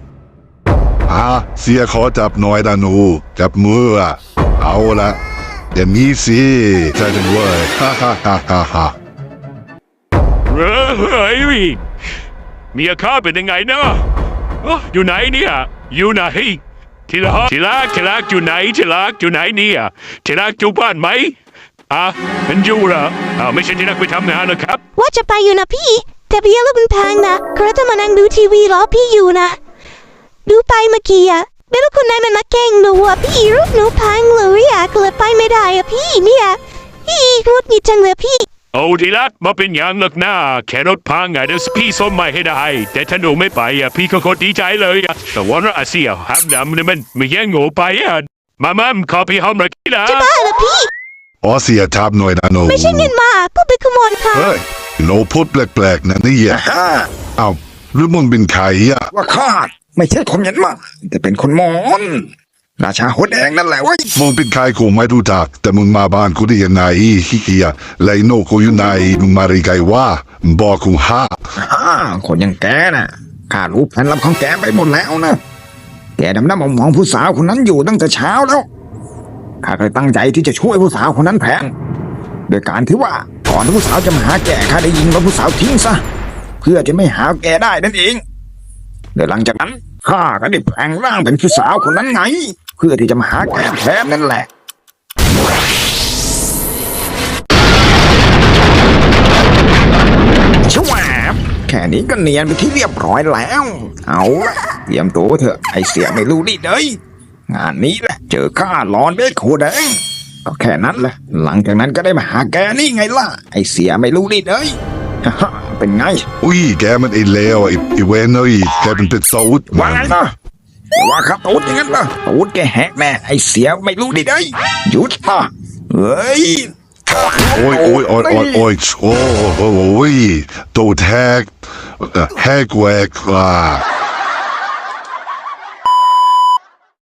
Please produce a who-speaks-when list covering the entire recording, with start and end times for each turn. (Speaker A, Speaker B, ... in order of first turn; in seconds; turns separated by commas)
Speaker A: 1.1-5.2, Speaker A: 5.7-8.9, Speaker B: 10.5-11.8, Speaker B: 12.7-14.1, Speaker B: 14.6-21.4, Speaker B: 21.9-24.8, Speaker C: 25.0-29.6, Speaker C: 30.5-38.5, Speaker B: 38.7-50.3, Speaker C: 50.0-50.9, Speaker A: 51.4-53.1, Speaker C: 52.7-54.5, Speaker A: 54.3-56.6, Speaker D: 56.5-57.1, Speaker A: 57.4-59.1, Speaker D: 59.1-62.3, Speaker D: 62.8-64.1, Speaker A: 64.2-71.4, Speaker D: 71.6-75.4, Speaker D: 76.2-78.7, Speaker D: 79.6-81.7, Speaker D: 82.5-86.0, Speaker D: 86.6-88.2, Speaker D: 89.2-94.5, Speaker D: 100.6-107.0, Speaker D: 107.5-116.3, Speaker A: 116.4-120.2, Speaker D: 119.7-120.3, Speaker D: 121.0-128.6, Speaker A: 127.5-133.8